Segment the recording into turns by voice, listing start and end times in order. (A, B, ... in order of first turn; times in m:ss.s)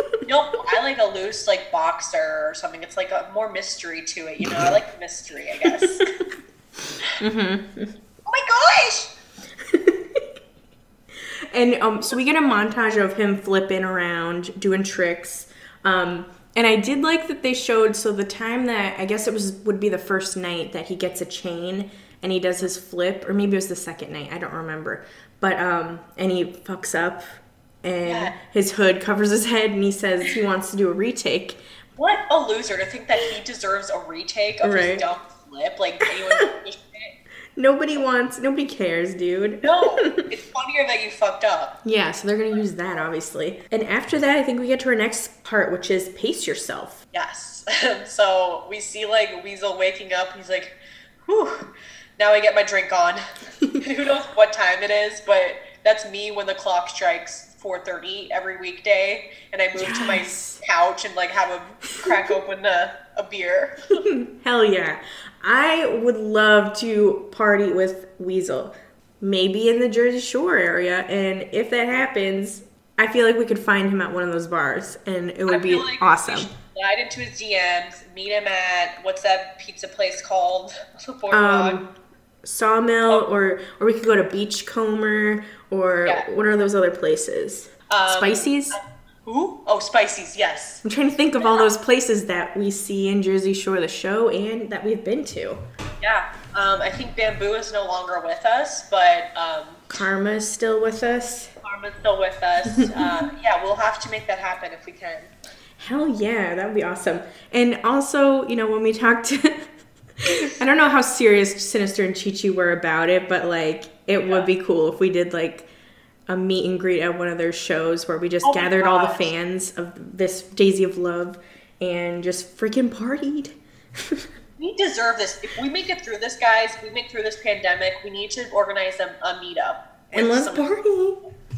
0:00.3-0:06.0 A
0:04.4-0:04.7 B
0:05.7-0:06.1 B
0:07.2-0:07.9 B
0:08.3-0:09.1 A
0:09.6-0:10.2 B
0:11.5-0:31.6 B
0:28.0-0:28.4 A
0:32.0-0:37.2 A
0:34.6-0:35.1 B
0:36.1-0:36.4 B
0:37.6-0:40.2 B
0:39.6-0:41.8 A
0:41.8-0:47.0 B
0:47.1-0:51.7 A
0:52.2-0:53.2 A
0:53.8-1:04.0 A
0:59.8-1:00.6 B
1:04.0-1:16.5 B
1:15.5-1:21.8 A
1:21.3-1:21.9 B
1:22.4-1:28.8 B
1:27.9-1:30.8 A
1:30.8-1:35.6 B
1:31.4-1:31.7 A
1:36.0-1:39.8 A
1:39.9-1:41.5 B
1:41.6-1:45.3 A
1:42.8-1:43.1 B
1:45.8-1:49.7 B
1:50.3-1:55.7 B
1:54.2-1:54.5 A
1:56.3-2:04.3 B
1:58.4-1:59.3 A
2:04.6-2:10.7 A
2:10.1-2:11.2 B